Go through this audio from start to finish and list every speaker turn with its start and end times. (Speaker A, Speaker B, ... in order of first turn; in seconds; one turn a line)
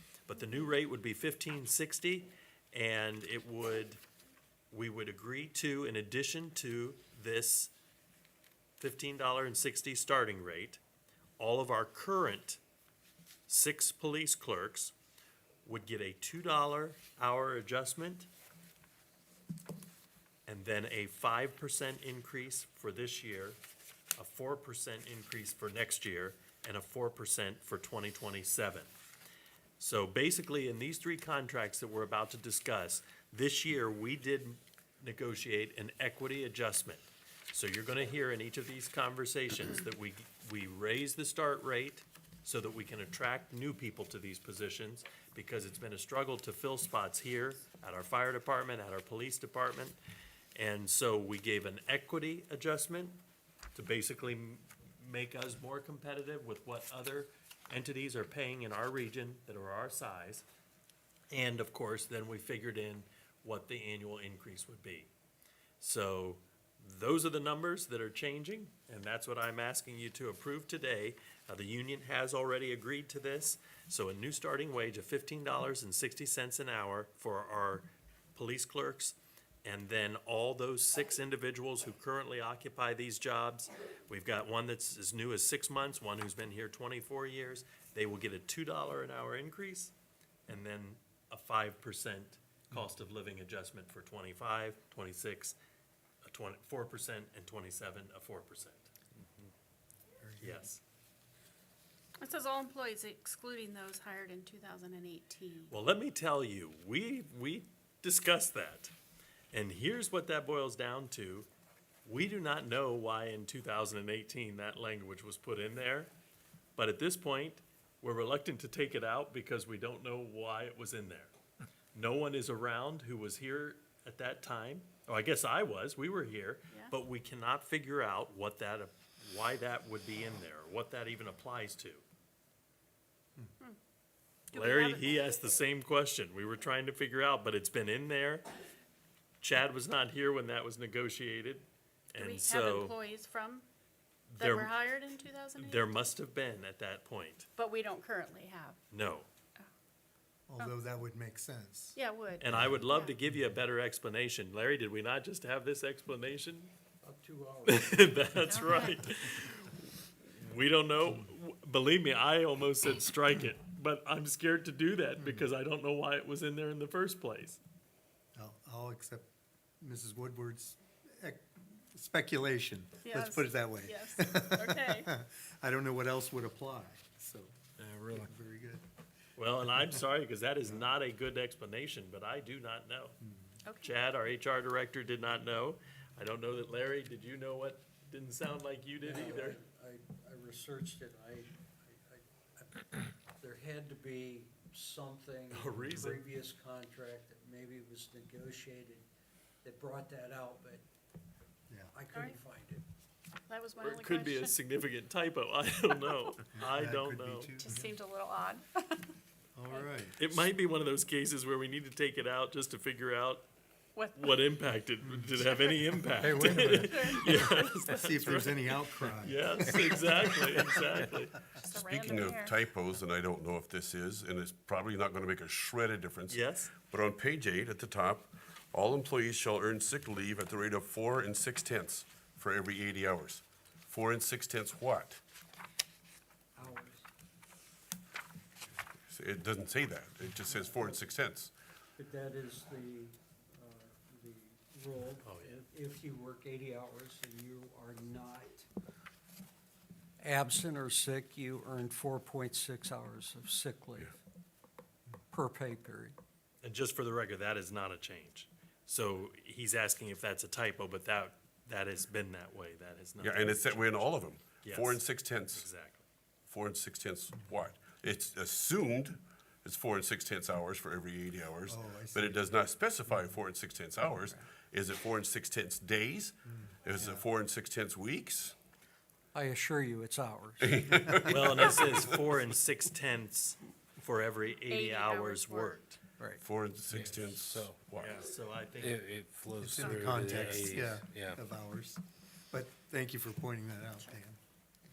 Speaker A: 0.3-4.0
Speaker A: 4.7-7.7
Speaker A: 8.8-10.8
Speaker A: 11.4-12.6
Speaker A: 13.5-14.9
Speaker A: 15.6-18.3
Speaker A: 20.5-23.6
Speaker A: 24.2-28.9
Speaker A: 29.8-50.0
Speaker A: 50.5-53.1
Speaker A: 53.7-60.4
Speaker A: 61.3-65.1
Speaker A: 65.8-89.9
Speaker A: 90.5-95.6
Speaker A: 96.2-98.9
Speaker B: 100.2-100.7
Speaker A: 100.4-100.8
Speaker C: 102.2-105.7
Speaker A: 105.7-108.9
Speaker A: 109.5-111.5
Speaker A: 112.0-116.1
Speaker A: 116.8-121.3
Speaker A: 121.9-132.0
Speaker A: 134.5-138.4
Speaker C: 134.5-135.2
Speaker A: 139.4-142.9
Speaker C: 142.1-143.7
Speaker A: 144.3-144.7
Speaker C: 144.4-146.1
Speaker A: 145.6-147.5
Speaker C: 147.6-148.8
Speaker A: 148.9-149.3
Speaker B: 150.5-152.0
Speaker C: 151.9-153.2
Speaker A: 152.4-156.7
Speaker D: 157.0-158.4
Speaker A: 157.6-167.6
Speaker C: 158.5-159.1
Speaker B: 168.3-178.8
Speaker C: 173.0-175.1
Speaker A: 179.4-183.2
Speaker B: 183.3-183.5
Speaker C: 183.6-183.9
Speaker A: 183.8-189.6
Speaker D: 189.0-199.0
Speaker A: 195.5-196.2
Speaker D: 199.6-200.8
Speaker D: 201.9-202.8
Speaker C: 202.1-202.4
Speaker C: 203.5-204.5
Speaker A: 203.8-207.6
Speaker B: 206.5-207.9
Speaker C: 207.6-209.1
Speaker B: 209.6-210.3
Speaker A: 210.2-213.4
Speaker C: 213.9-214.4
Speaker A: 214.2-221.3
Speaker C: 215.4-217.9
Speaker B: 216.2-221.0
Speaker C: 221.6-222.6
Speaker E: 221.7-235.2
Speaker A: 226.3-226.7
Speaker D: 236.6-237.0
Speaker E: 239.1-241.5
Speaker D: 240.5-241.0
Speaker D: 242.0-248.7
Speaker A: 245.2-245.6
Speaker D: 250.2-254.2
Speaker D: 255.3-256.1
Speaker A: 256.6-264.1
Speaker E: 263.2-265.7
Speaker A: 264.6-266.0
Speaker E: 266.5-278.5
Speaker B: 271.6-272.6
Speaker B: 276.5-277.2
Speaker D: 279.3-281.4
Speaker E: 280.7-282.1
Speaker A: 281.3-286.0
Speaker C: 284.7-285.8
Speaker E: 286.4-288.2
Speaker F: 286.9-287.7
Speaker A: 288.0-289.1
Speaker F: 288.8-291.4
Speaker B: 289.5-294.4
Speaker C: 289.7-290.9
Speaker A: 290.2-290.8